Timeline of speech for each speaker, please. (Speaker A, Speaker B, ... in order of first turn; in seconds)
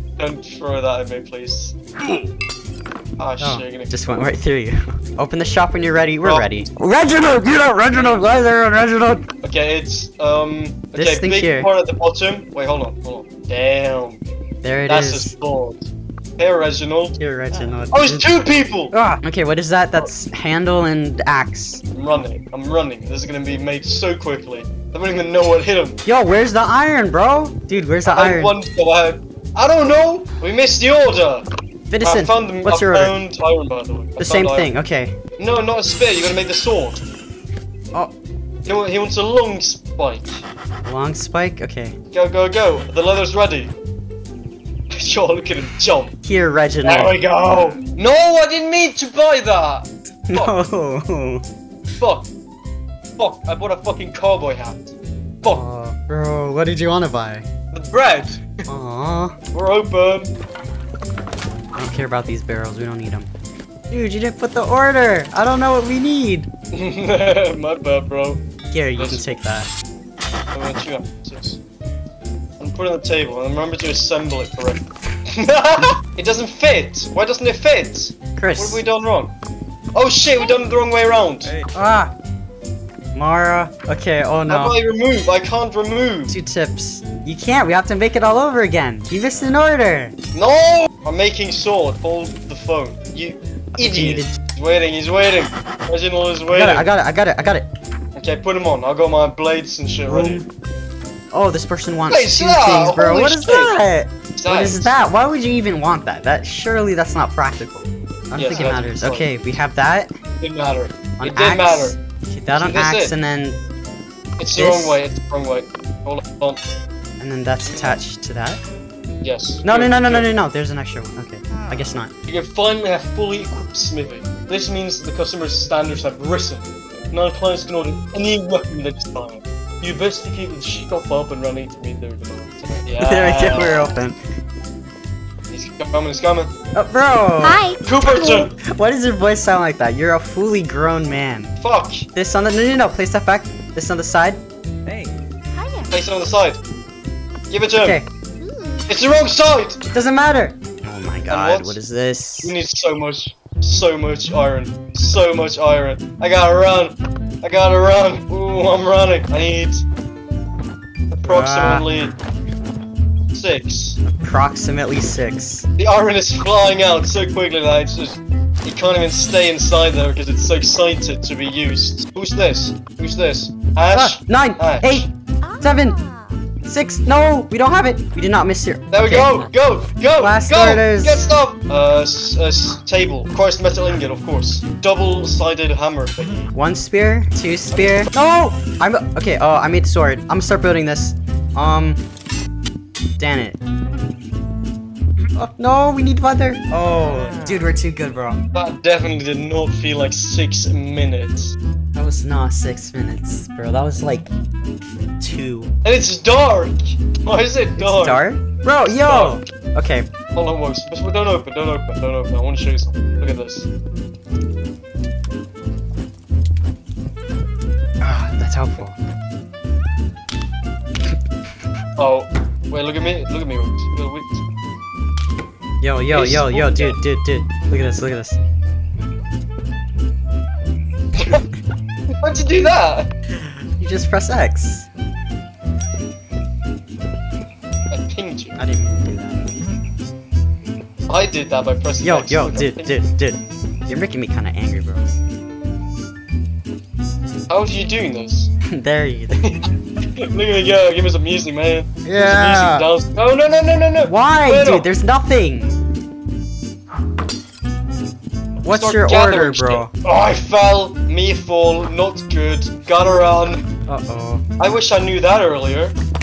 Speaker A: 0.2-1.8, 3.2-3.9, 6.2-6.5, 7.9-8.3, 9.4-14.2, 14.9-17.2, 17.9-18.9, 21.9-26.0, 28.1-31.4, 32.0-34.7, 35.4-37.0, 38.6-40.4, 42.1-43.7, 45.0-46.1, 46.8-50.6, 52.0-52.3, 53.2-55.6, 57.7-58.5, 59.5-60.3, 66.7-68.4, 69.0-69.3, 70.5-71.6, 72.6-79.3, 80.0-81.5, 84.5-86.3, 90.3-96.9, 98.2-100.5, 102.1-103.8, 104.3-105.0, 108.3-109.3, 110.4-112.0, 112.5-113.2, 114.4-116.6, 117.7-118.0, 119.2-120.3, 122.3-133.9, 135.5-136.5, 137.8-138.6, 141.6-142.1, 145.9-146.6, 147.5-148.0, 148.9-149.8, 151.3-151.8, 152.4-159.8, 161.1-162.1, 163.3-164.0, 165.8-175.1, 178.9-186.5, 198.5-201.6, 205.8-208.2, 208.8-209.4, 210.3-213.7, 222.0-224.4, 226.1-227.0, 232.2-233.1, 237.9-238.6, 241.1-243.0, 247.5-248.5, 250.2-254.9, 258.6-263.7, 264.6-266.0
Speaker B: 3.4-9.3, 11.0-11.7, 14.6-15.3, 17.2-18.3, 18.9-21.8, 26.1-28.6, 31.9-33.1, 34.2-35.2, 40.9-42.0, 46.2-47.1, 50.3-51.4, 55.5-57.5, 58.7-59.4, 61.8-63.3, 63.9-66.5, 68.7-69.7, 78.4-78.8, 81.5-82.1, 83.2-84.8, 86.3-90.1, 93.8-94.3, 96.5-97.7, 100.1-100.5, 101.3-110.1, 111.2-113.6, 114.5-115.0, 117.2-118.6, 119.6-122.1, 133.0-134.2, 136.7-141.5, 142.2-145.1, 147.8-148.1, 149.9-152.6, 161.2-161.9, 164.2-165.7, 173.9-175.1, 175.6-176.0, 176.7-179.5, 180.2-181.3, 186.5-192.0, 193.2-193.6, 195.4-198.4, 201.9-204.3, 205.2-205.7, 207.8-210.1, 218.0-219.0, 225.8-228.4, 233.8-234.9, 238.6-239.5, 242.0-245.2, 248.7-249.6, 252.0-252.9, 254.1-255.7, 258.6-259.9, 263.9-264.4
Speaker C: 137.4-138.4, 145.6-145.9, 148.4-148.8, 175.5-176.1